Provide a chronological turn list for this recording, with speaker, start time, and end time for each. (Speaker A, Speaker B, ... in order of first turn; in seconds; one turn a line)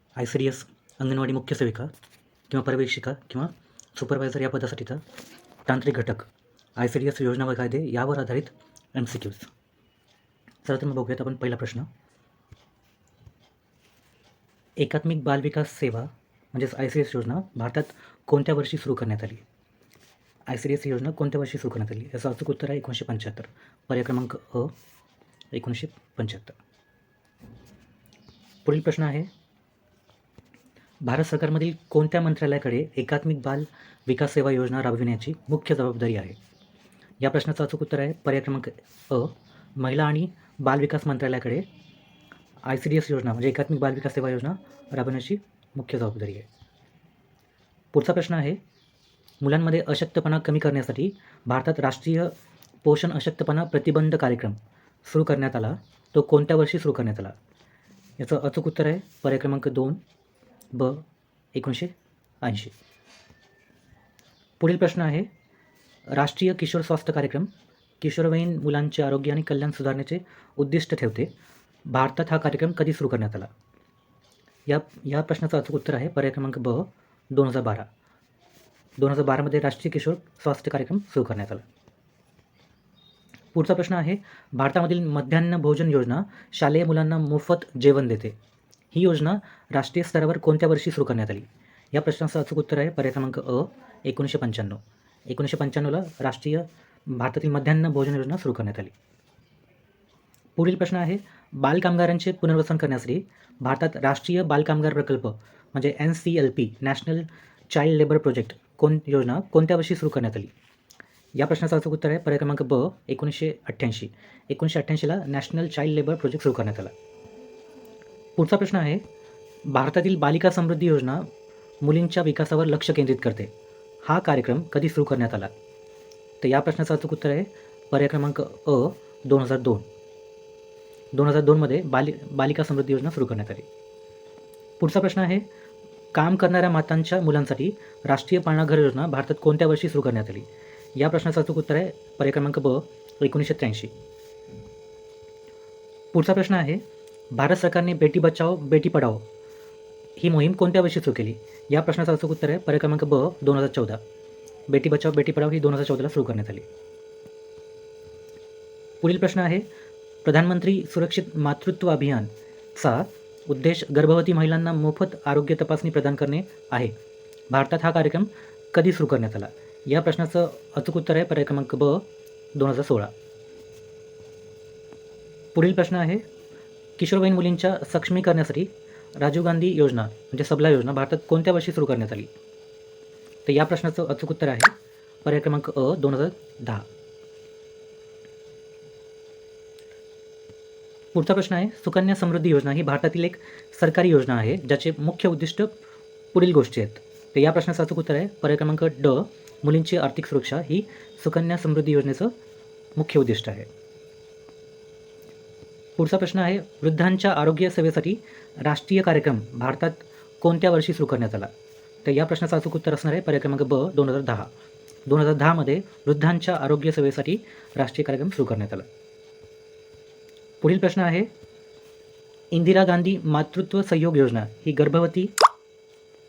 Speaker A: 0.2-1.9
Speaker A: 2.5-5.0
Speaker A: 5.7-9.5
Speaker A: 10.6-11.9
Speaker A: 14.8-19.4
Speaker A: 20.5-24.7
Speaker A: 25.5-26.6
Speaker A: 28.6-29.3
Speaker A: 31.0-36.4
Speaker A: 37.2-41.7
Speaker A: 42.7-46.5
Speaker A: 47.9-48.6
Speaker A: 49.4-52.3
Speaker A: 52.8-57.4
Speaker A: 58.2-60.0
Speaker A: 60.7-62.7
Speaker A: 64.6-65.3
Speaker A: 66.1-67.5
Speaker A: 68.0-71.3
Speaker A: 71.9-73.5
Speaker A: 74.7-77.9
Speaker A: 79.0-81.6
Speaker A: 83.5-88.3
Speaker A: 88.9-98.9
Speaker A: 100.6-110.5
Speaker A: 111.3-116.9
Speaker A: 118.4-119.0
Speaker A: 119.7-121.3
Speaker A: 121.8-123.5
Speaker A: 124.0-125.5
Speaker A: 126.4-129.8
Speaker A: 131.1-133.7
Speaker A: 134.8-135.5
Speaker A: 136.1-143.9
Speaker A: 146.1-146.8
Speaker A: 147.3-149.2
Speaker A: 150.2-154.0
Speaker A: 154.7-156.7
Speaker A: 159.0-159.7
Speaker A: 160.2-166.9
Speaker A: 167.5-173.1
Speaker A: 175.5-176.2
Speaker A: 177.0-182.3
Speaker A: 183.4-184.7
Speaker A: 185.2-186.9
Speaker A: 191.1-195.7
Speaker A: 196.3-202.3
Speaker A: 202.9-203.7
Speaker A: 206.0-211.5
Speaker A: 212.0-214.5
Speaker A: 215.1-218.9
Speaker A: 220.6-221.3
Speaker A: 222.5-225.3